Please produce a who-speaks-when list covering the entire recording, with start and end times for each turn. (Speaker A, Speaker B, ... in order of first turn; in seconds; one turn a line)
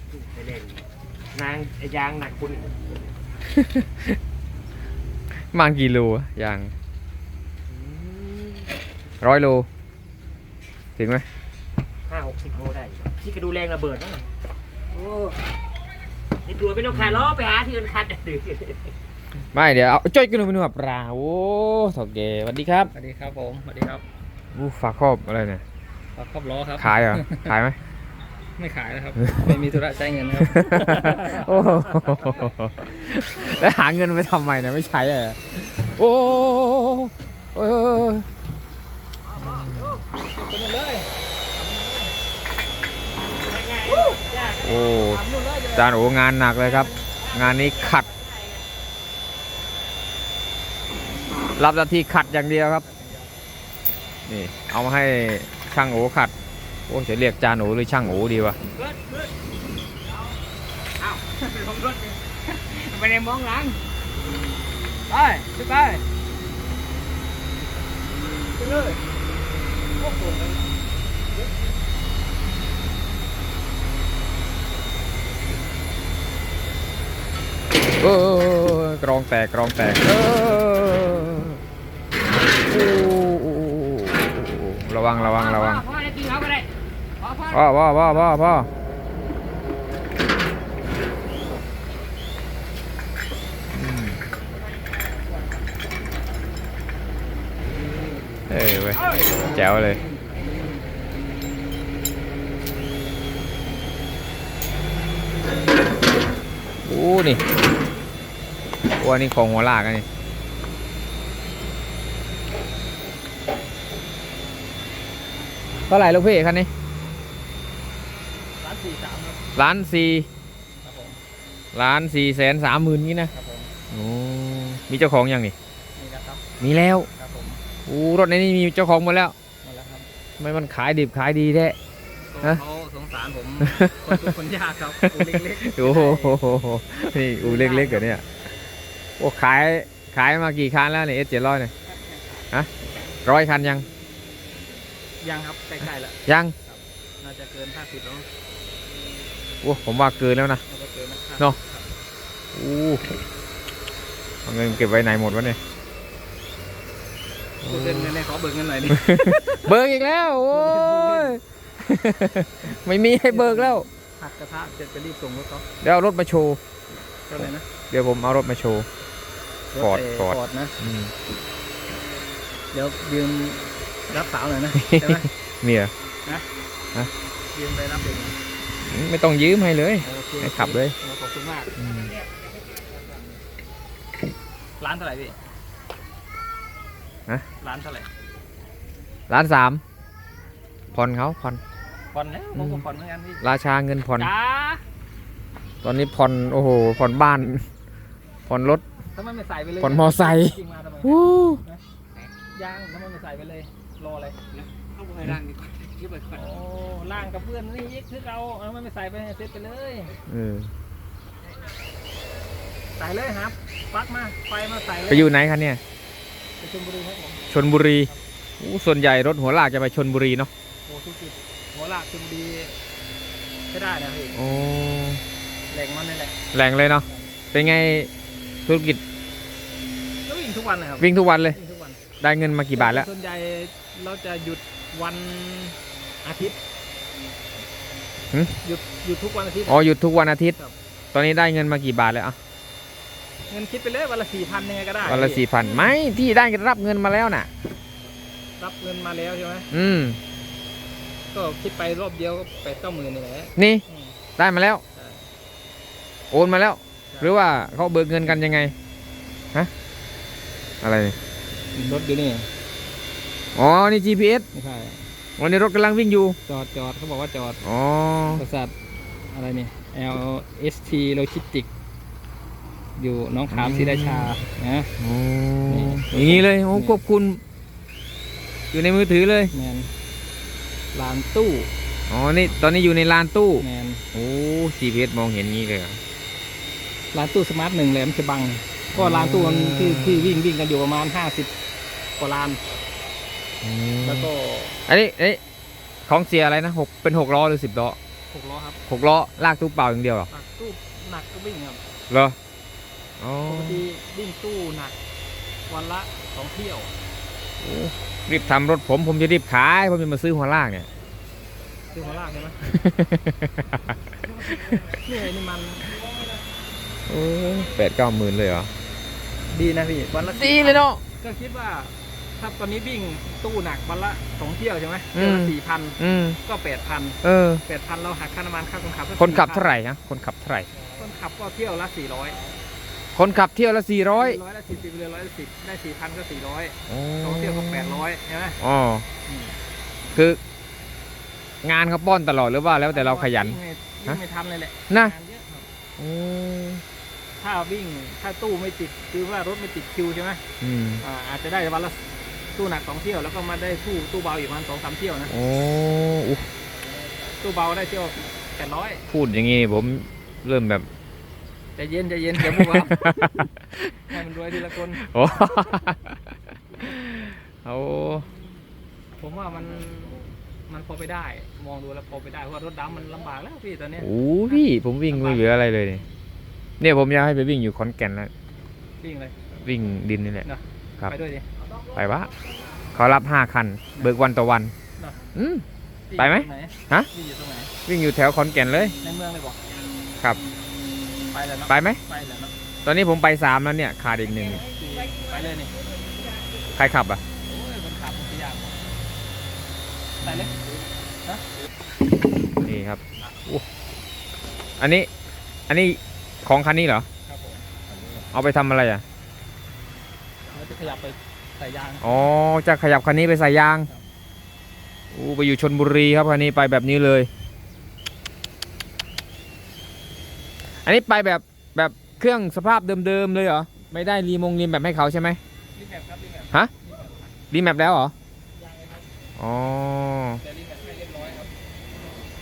Speaker A: 0.1-2.8
Speaker B: 3.4-4.2
Speaker B: 5.3-6.7
Speaker A: 7.7-8.7
Speaker B: 9.2-9.7
Speaker B: 11.0-11.2
Speaker A: 12.1-14.3
Speaker A: 14.9-15.4
Speaker A: 16.4-18.9
Speaker B: 16.9-17.4
Speaker B: 19.5-22.9
Speaker C: 22.9-24.0
Speaker B: 24.5-25.6
Speaker C: 26.1-27.5
Speaker B: 26.8-27.8
Speaker C: 28.6-31.8
Speaker B: 29.3-29.5
Speaker B: 30.4-38.2
Speaker A: 39.3-40.0
Speaker B: 39.4-40.0
Speaker C: 40.3-42.1
Speaker A: 43.4-44.6
Speaker C: 43.8-46.1
Speaker B: 44.6-48.1
Speaker A: 47.0-48.6
Speaker B: 51.5-52.8
Speaker C: 52.9-53.3
Speaker B: 54.3-56.3
Speaker B: 56.9-58.6
Speaker A: 58.8-59.3
Speaker A: 61.0-63.8
Speaker A: 65.1-66.0
Speaker A: 68.6-68.9
Speaker A: 70.0-70.7
Speaker B: 77.9-81.6
Speaker B: 82.6-85.9
Speaker A: 85.2-87.7
Speaker B: 87.5-88.7
Speaker B: 93.7-94.2
Speaker B: 98.5-100.0
Speaker B: 106.8-107.4
Speaker B: 109.0-110.0
Speaker B: 115.8-116.7
Speaker C: 118.6-119.4
Speaker B: 119.5-120.3
Speaker C: 120.8-121.2
Speaker B: 121.7-123.3
Speaker C: 123.3-123.7
Speaker B: 123.9-125.5
Speaker C: 126.0-126.4
Speaker B: 126.6-127.1
Speaker C: 127.2-127.6
Speaker B: 127.8-129.3
Speaker C: 129.6-130.1
Speaker B: 130.4-131.8
Speaker C: 132.3-136.4
Speaker B: 133.6-134.3
Speaker B: 135.0-138.2
Speaker C: 137.4-138.2
Speaker B: 139.2-141.7
Speaker C: 141.9-142.3
Speaker B: 143.2-143.9
Speaker C: 145.2-148.2
Speaker B: 146.2-146.5
Speaker B: 149.6-150.6
Speaker C: 150.7-151.9
Speaker B: 152.5-153.1
Speaker B: 154.4-155.6
Speaker B: 157.6-158.1
Speaker C: 157.6-159.7
Speaker B: 158.9-163.9
Speaker C: 160.5-161.4
Speaker C: 163.2-165.6
Speaker B: 165.8-166.6
Speaker C: 167.3-167.7
Speaker B: 167.4-168.9
Speaker C: 169.7-170.7
Speaker B: 169.8-171.1
Speaker C: 172.7-175.3
Speaker B: 174.7-175.9
Speaker C: 177.5-178.4
Speaker B: 178.8-180.9
Speaker C: 180.0-181.8
Speaker B: 181.8-182.1
Speaker A: 181.9-183.4
Speaker C: 184.8-185.4
Speaker C: 187.6-188.1
Speaker B: 189.3-189.8
Speaker B: 190.9-191.6
Speaker C: 192.1-193.4
Speaker B: 192.5-192.8
Speaker B: 193.4-194.3
Speaker C: 194.2-194.8
Speaker B: 195.8-197.6
Speaker B: 198.5-198.8
Speaker C: 199.1-201.8
Speaker B: 199.8-201.6
Speaker C: 202.5-204.4
Speaker A: 204.5-206.5
Speaker C: 206.3-210.1
Speaker B: 210.3-210.7
Speaker C: 213.0-215.3
Speaker B: 215.1-215.8
Speaker C: 216.6-217.4
Speaker B: 217.5-220.5
Speaker C: 220.8-222.8
Speaker C: 223.7-224.4
Speaker B: 224.3-225.2
Speaker C: 225.7-226.3
Speaker B: 226.5-228.1
Speaker B: 228.7-229.0
Speaker C: 230.2-232.0
Speaker B: 231.0-231.6
Speaker B: 232.2-233.1
Speaker C: 232.7-236.6
Speaker C: 238.6-239.9
Speaker B: 239.7-240.6
Speaker B: 241.1-242.3
Speaker C: 243.5-245.5
Speaker B: 245.0-247.5
Speaker C: 248.6-249.7
Speaker B: 249.7-250.2
Speaker C: 251.3-254.2
Speaker B: 253.6-253.8
Speaker B: 254.4-254.8
Speaker C: 254.9-255.2
Speaker B: 256.3-258.7
Speaker B: 260.8-261.1
Speaker C: 261.7-262.5
Speaker B: 263.5-264.5
Speaker C: 264.5-265.0
Speaker B: 265.4-266.4
Speaker C: 266.4-267.6
Speaker B: 267.6-268.4
Speaker C: 268.3-268.7
Speaker C: 269.3-271.7
Speaker C: 273.0-274.9
Speaker B: 273.5-274.3
Speaker B: 275.0-277.4
Speaker C: 275.7-277.0
Speaker B: 278.7-279.5
Speaker C: 279.5-279.9
Speaker C: 280.9-281.7
Speaker B: 282.1-286.0
Speaker C: 283.6-284.0
Speaker C: 287.1-291.5
Speaker B: 288.9-290.4
Speaker C: 292.2-292.6
Speaker B: 293.6-294.3
Speaker C: 294.0-294.8
Speaker B: 294.9-295.4
Speaker B: 296.1-298.0
Speaker C: 298.3-298.8
Speaker B: 298.9-300.3
Speaker C: 300.3-301.8
Speaker B: 302.1-302.4
Speaker B: 303.2-303.9
Speaker C: 303.4-304.9
Speaker C: 305.7-306.9
Speaker B: 307.6-310.9
Speaker C: 311.9-312.6
Speaker B: 312.6-314.0
Speaker C: 314.2-316.4
Speaker B: 314.5-315.0
Speaker B: 317.1-318.7
Speaker C: 319.5-329.7
Speaker B: 320.2-321.0
Speaker B: 325.1-326.4
Speaker B: 327.2-327.6
Speaker B: 329.2-330.7
Speaker C: 330.7-332.4
Speaker B: 333.1-334.4
Speaker C: 334.1-338.6
Speaker B: 336.9-338.0
Speaker B: 338.6-339.1
Speaker C: 339.2-339.5
Speaker B: 340.1-340.4
Speaker B: 341.6-344.2
Speaker C: 342.9-345.6
Speaker B: 344.9-345.1
Speaker B: 346.0-346.8
Speaker C: 347.4-350.4
Speaker B: 350.6-351.0
Speaker C: 351.0-352.0
Speaker C: 352.5-355.3
Speaker B: 355.3-356.5
Speaker C: 357.0-359.1
Speaker B: 359.1-360.9
Speaker C: 361.8-363.5
Speaker B: 362.4-363.5
Speaker C: 364.1-365.1
Speaker B: 365.0-366.2
Speaker B: 366.8-368.3
Speaker C: 369.2-374.6
Speaker B: 374.0-376.0
Speaker C: 375.1-375.4
Speaker B: 376.8-378.3
Speaker C: 379.0-379.4
Speaker B: 379.6-380.5
Speaker C: 380.4-381.5
Speaker B: 381.9-382.3
Speaker B: 382.9-384.7
Speaker C: 385.0-385.2
Speaker B: 385.3-385.6
Speaker C: 386.1-387.7
Speaker B: 386.2-387.1
Speaker B: 387.9-388.9
Speaker C: 389.0-389.6
Speaker C: 391.3-392.5
Speaker B: 391.7-392.0
Speaker B: 392.8-394.6
Speaker C: 394.4-395.8
Speaker B: 396.7-397.2
Speaker C: 397.4-398.8
Speaker C: 400.2-400.6
Speaker B: 402.6-403.6
Speaker B: 404.8-405.1
Speaker B: 405.7-407.1
Speaker C: 407.3-407.6
Speaker B: 408.2-409.0
Speaker C: 410.5-412.2
Speaker B: 412.0-413.9
Speaker B: 415.1-417.3
Speaker B: 420.8-425.4
Speaker C: 425.7-427.3
Speaker B: 427.5-428.1
Speaker C: 428.5-429.1
Speaker B: 429.4-430.4
Speaker C: 430.4-431.5